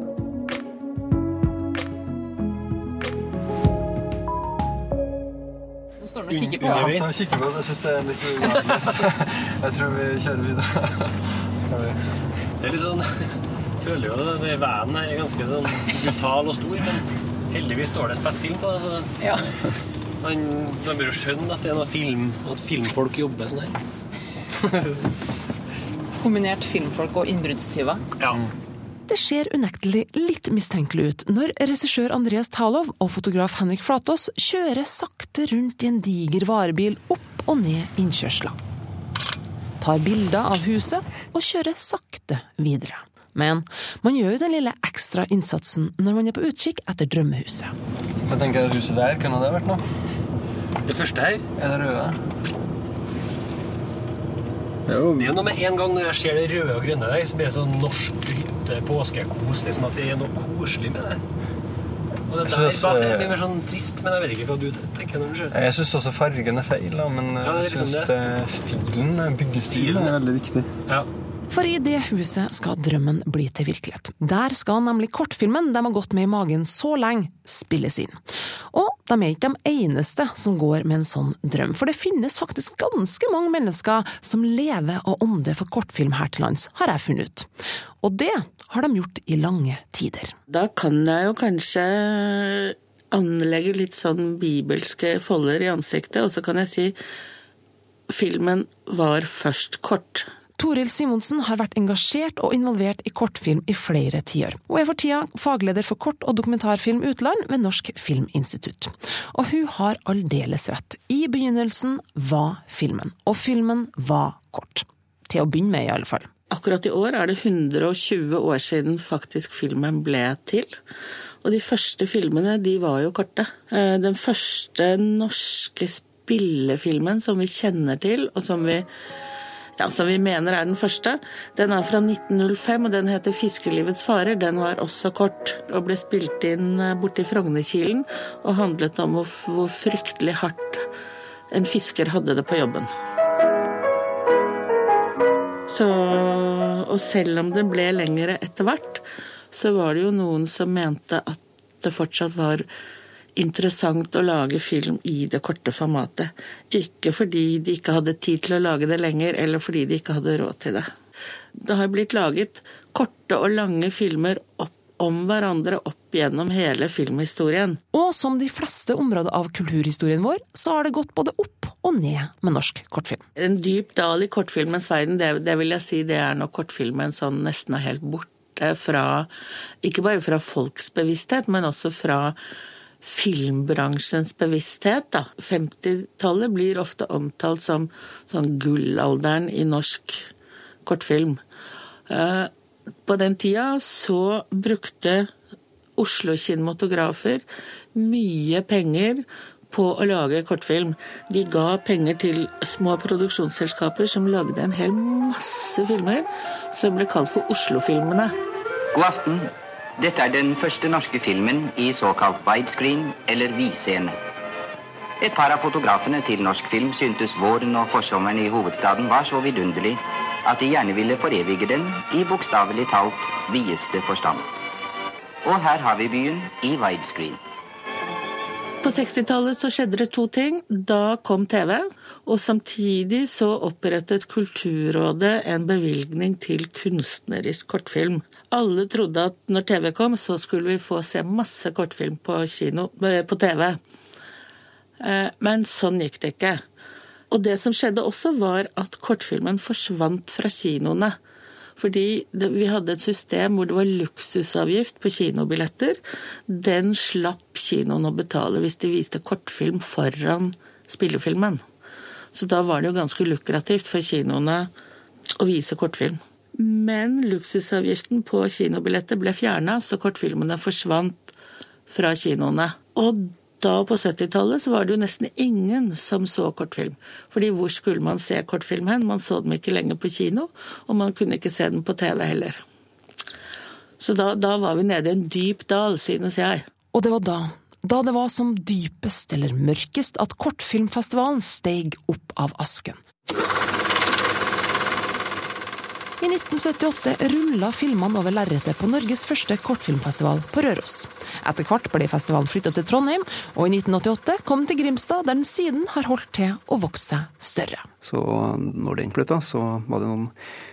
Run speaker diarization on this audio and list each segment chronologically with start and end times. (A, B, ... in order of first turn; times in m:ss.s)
0:06.0-0:07.0 A
0:06.3-0:07.1 B
0:06.6-0:12.0 C
0:08.5-0:09.0 B
0:12.6-0:13.1 B
0:13.8-0:19.1 B
0:20.2-0:23.7 B
0:26.2-0:28.0 A
0:28.2-0:28.4 B
0:29.1-0:38.6 D
0:39.8-0:47.7 D
0:48.3-0:49.8 C
0:50.8-0:51.4 B
0:51.6-0:52.2 C
0:54.9-0:55.4 C
0:55.1-1:01.2 B
1:02.3-1:05.5 B
1:02.4-1:03.4 C
1:05.5-1:10.7 C
1:07.4-1:08.1 B
1:09.6-1:10.1 B
1:11.5-1:18.2 D
1:18.7-1:27.5 D
1:28.0-1:30.3 D
1:30.5-1:37.0 E
1:38.1-1:40.3 E
1:40.6-1:56.3 D
1:56.5-2:00.8 E
2:01.4-2:08.9 E
2:09.8-2:20.8 E
2:21.5-2:22.9 E
2:25.7-2:32.6 E
2:33.4-2:40.9 E
2:41.6-2:47.8 E
2:47.9-2:53.2 D
2:53.4-2:59.3 E
2:59.8-3:02.4 E
3:03.0-3:10.3 E
3:10.8-3:11.4 E
3:12.1-3:12.5 E
3:13.0-3:15.3 E
3:16.0-3:17.4 E
3:17.9-3:28.3 E
3:28.9-3:34.1 F
3:35.2-3:44.5 F
3:45.4-3:47.4 F
3:48.8-4:03.8 E
4:05.0-4:06.6 E
4:07.3-4:11.2 E
4:11.8-4:21.6 E
4:22.3-4:24.7 E
4:25.4-4:31.3 E
4:31.9-4:42.6 E
4:44.0-4:46.6 E
4:46.9-4:53.0 D
4:56.2-5:07.9 D
5:08.0-5:10.3 G